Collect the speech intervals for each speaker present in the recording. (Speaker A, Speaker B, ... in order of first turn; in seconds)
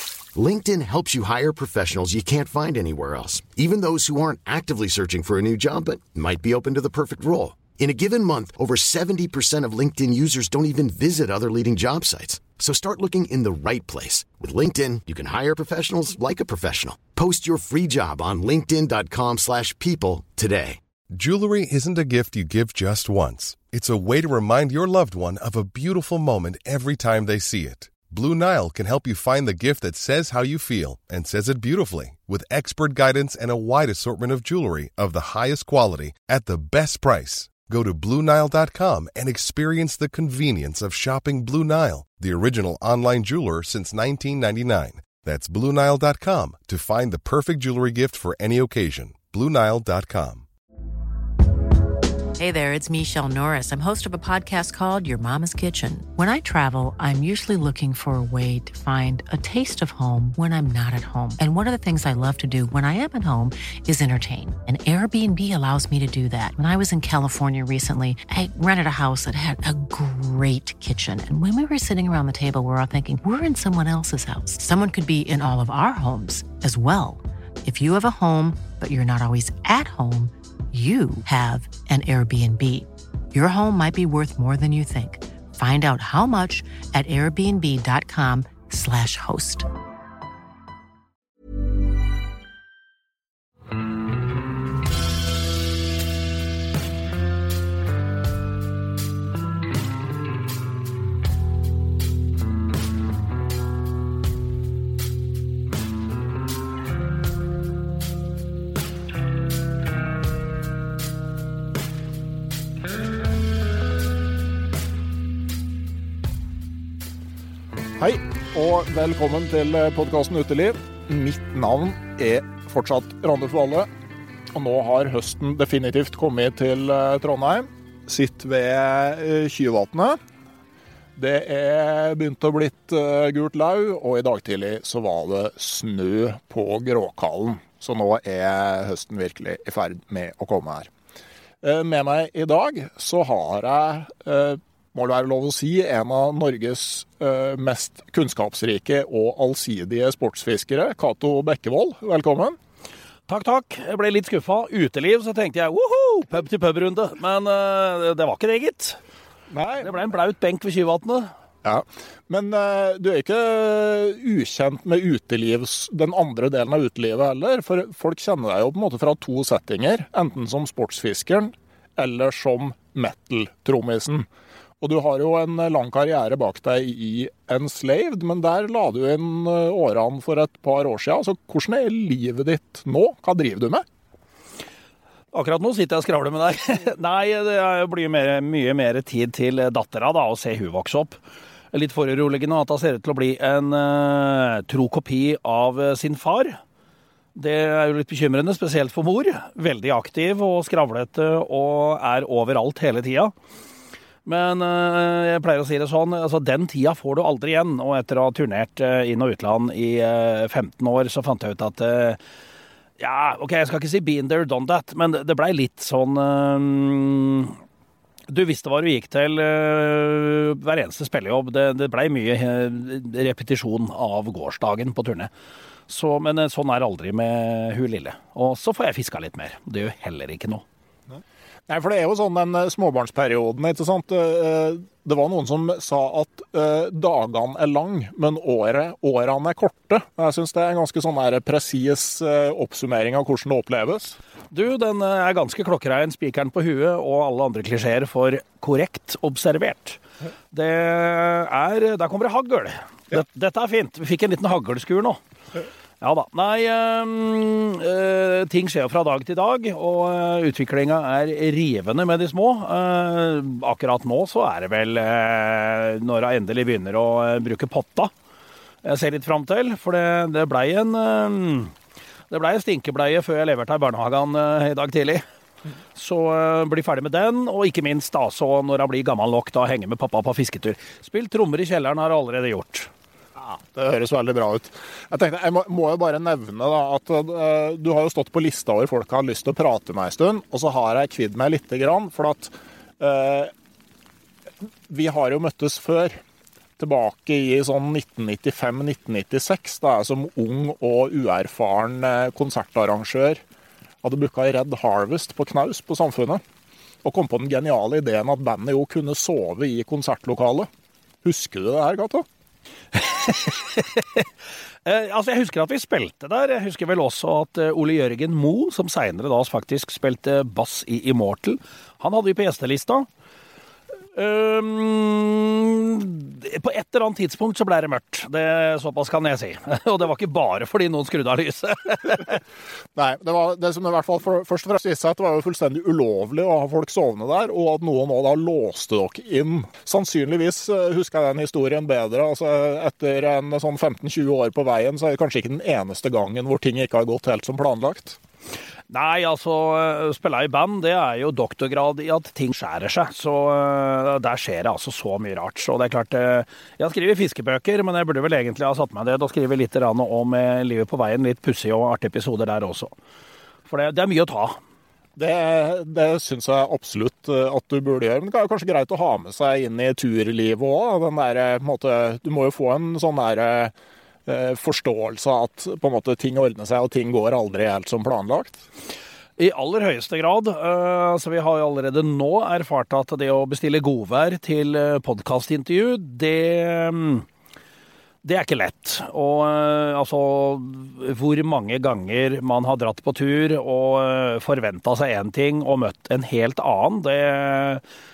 Speaker A: 0.3-20.8
Speaker B: 21.1-50.5
Speaker C: 52.4-89.7
Speaker D: 118.0-123.9, 124.5-130.2, 131.2-140.9, 141.6-152.6, 159.5-159.9, 161.6-174.3, 174.8-183.8, 231.7-244.2, 283.4-293.5, 294.9-296.2, 296.8-303.4, 304.0-306.4, 307.0-310.7, 311.2-312.3, 332.9-348.2, 365.2-373.7, 374.3-378.6
Speaker E: 153.3-159.0, 159.8-161.3, 185.3-191.2, 191.7-196.6, 197.3-203.3, 204.3-212.2, 213.0-217.6, 218.3-225.3, 225.9-230.6, 244.5-250.0, 250.5-255.2, 256.0-268.1, 268.8-271.7, 272.3-275.2, 276.0-282.9, 312.9-314.3, 314.9-323.1, 324.1-332.4, 348.9-362.9, 363.7-364.6, 379.4-387.3, 388.2-397.8